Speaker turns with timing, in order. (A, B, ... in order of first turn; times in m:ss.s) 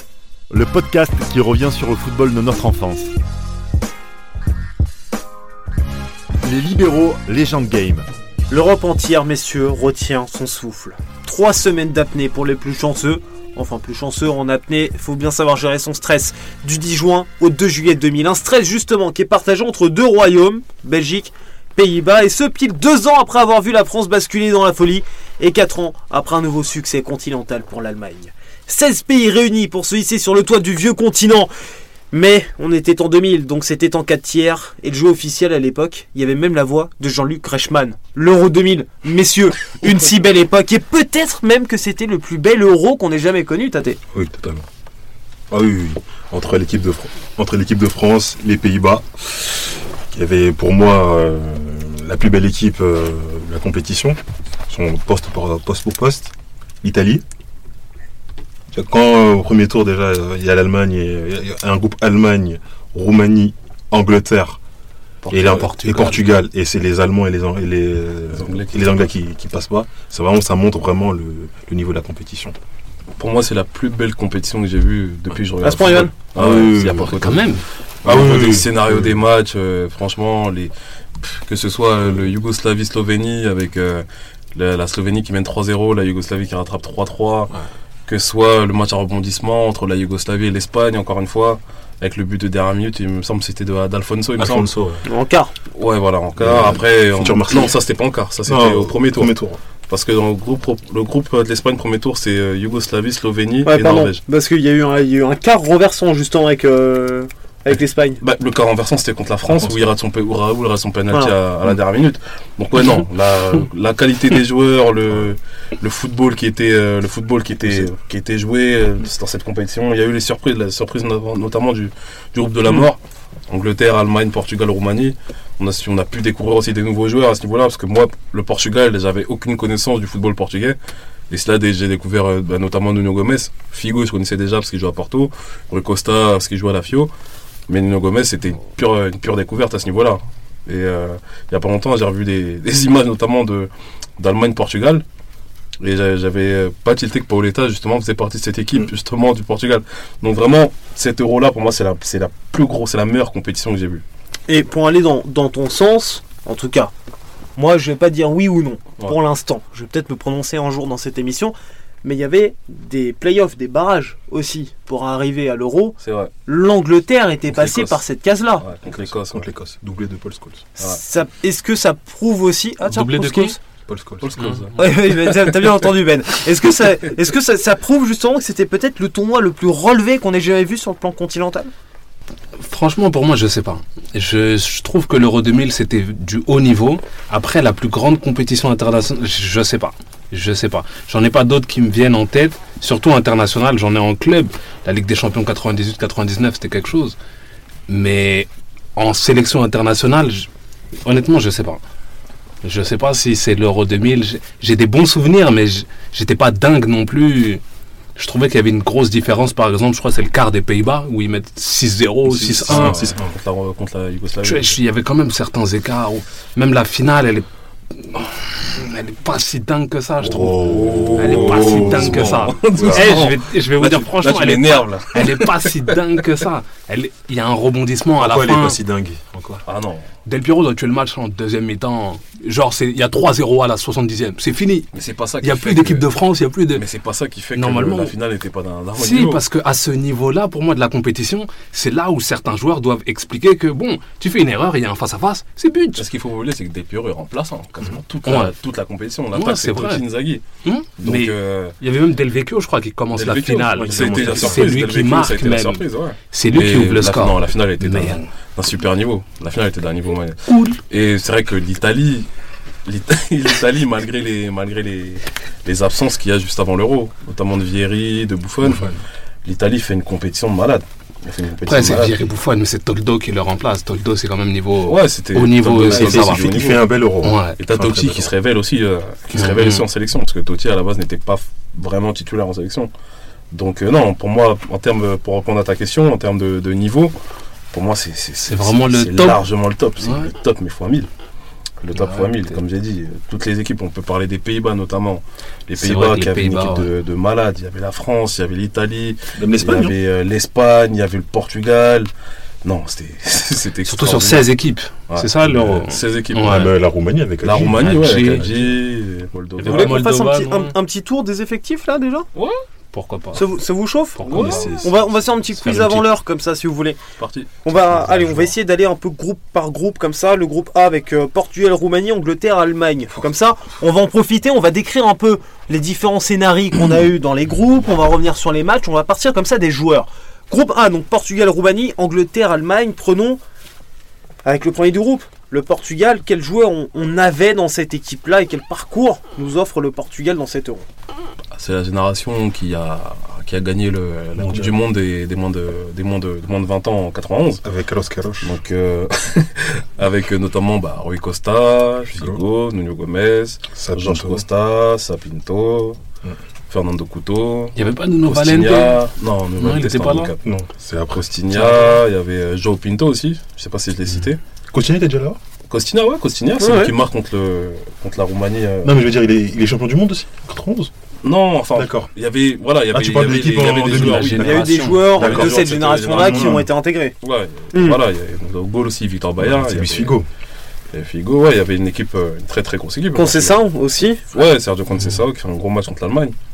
0:00.5-0:03.1 A
0:06.4-0:08.0 A
0:08.5-0:31.5 B
0:32.1-0:44.0 B
0:44.1-0:44.6 C
0:45.5-0:57.2 C
0:58.7-1:04.6 C
1:05.2-1:05.5 D
1:05.3-1:12.5 C
1:05.4-1:06.2 E
1:08.3-1:09.1 D
1:13.2-1:27.5 D
1:15.6-1:16.1 B
1:16.3-1:17.0 C
1:16.6-1:17.6 E
1:18.0-1:19.2 C
1:28.0-1:34.7 D
1:34.4-1:35.0 C
1:35.0-1:35.5 B
1:35.7-1:39.3 D
1:36.4-1:37.8 C
1:38.4-1:39.6 C
1:39.9-1:44.2 D
1:43.6-1:48.2 B
1:48.2-2:10.8 D
1:49.5-1:49.8 C
2:11.3-2:17.1 D
2:17.7-2:25.0 D
2:25.8-2:34.0 D
2:34.5-2:36.9 B
2:37.6-2:48.6 B
2:46.0-2:46.3 D
2:47.5-2:48.0 D
2:48.6-2:49.4 D
2:48.8-2:50.6 C
2:50.8-2:53.6 B
2:52.9-2:53.6 E
2:53.9-2:54.3 C
2:54.2-2:55.1 D
2:54.4-2:54.8 E
2:54.7-3:01.7 B
3:02.6-3:17.2 E
3:17.9-3:20.5 E
3:21.0-3:21.8 E
3:22.6-3:27.6 E
3:28.2-3:33.0 E
3:32.3-3:34.8 D
3:32.6-3:33.3 C
3:34.4-3:48.8 E
3:40.2-3:43.2 C
3:40.6-3:45.9 D
3:48.2-3:49.6 C
3:49.6-3:50.1 D
3:50.2-3:56.8 E
3:54.9-3:56.1 D
3:56.7-3:59.4 D
3:57.5-3:58.1 E
3:59.0-4:06.0 E
4:06.0-4:10.4 D
4:08.2-4:08.5 E
4:09.3-4:10.0 E
4:10.6-4:18.3 E
4:11.0-4:11.7 D
4:13.1-4:22.3 D
4:13.8-4:14.7 C
4:20.5-4:20.8 E
4:22.8-4:28.9 D
4:28.6-4:29.0 C
4:29.4-4:32.3 D
4:31.6-4:36.5 E
4:34.8-4:36.8 D
4:35.8-4:38.3 C
4:37.2-4:37.6 E
4:37.6-4:42.9 D
4:39.3-4:39.8 E
4:43.5-4:47.1 D
4:47.7-4:51.1 D
4:48.4-4:49.4 E
4:50.0-4:50.3 E
4:51.8-5:02.1 D
4:51.9-4:52.6 E
4:55.8-4:56.9 E
4:59.4-5:00.0 C
5:02.6-5:04.5 D
5:03.8-5:06.7 E
5:05.1-5:06.7 D
5:05.4-5:05.8 C
5:06.4-5:08.7 C
5:07.4-5:10.0 D
5:07.7-5:08.5 E
5:09.6-5:10.7 E
5:09.6-5:12.3 B
5:12.3-5:12.6 D
5:12.9-5:13.4 E
5:13.3-5:14.2 B
5:14.2-5:14.8 E
5:14.2-5:14.7 D
5:14.3-5:15.0 C
5:14.8-5:17.0 B
5:15.6-5:16.1 E
5:17.2-5:17.6 D
5:17.6-5:33.4 B
5:34.4-5:40.8 B
5:41.5-5:47.6 D
5:44.4-5:44.8 C
5:47.6-5:48.6 C
5:48.4-5:56.0 D
5:52.1-5:52.4 C
5:53.8-5:54.4 C
5:56.7-5:57.8 D
5:57.8-5:59.0 E
5:58.3-6:00.4 D
5:59.6-6:00.3 E
6:00.4-6:01.3 C
6:01.1-6:04.4 D
6:01.5-6:02.0 E
6:04.7-6:05.4 C
6:05.7-6:08.9 D
6:06.6-6:06.9 B
6:08.8-6:10.9 C
6:11.2-6:16.6 D
6:11.7-6:12.1 C
6:12.9-6:16.7 C
6:13.7-6:15.2 E
6:14.4-6:17.1 B
6:17.2-6:20.2 D
6:17.7-6:18.0 B
6:19.4-6:20.3 C
6:20.9-6:23.6 D
6:23.1-6:24.2 B
6:24.3-6:26.3 D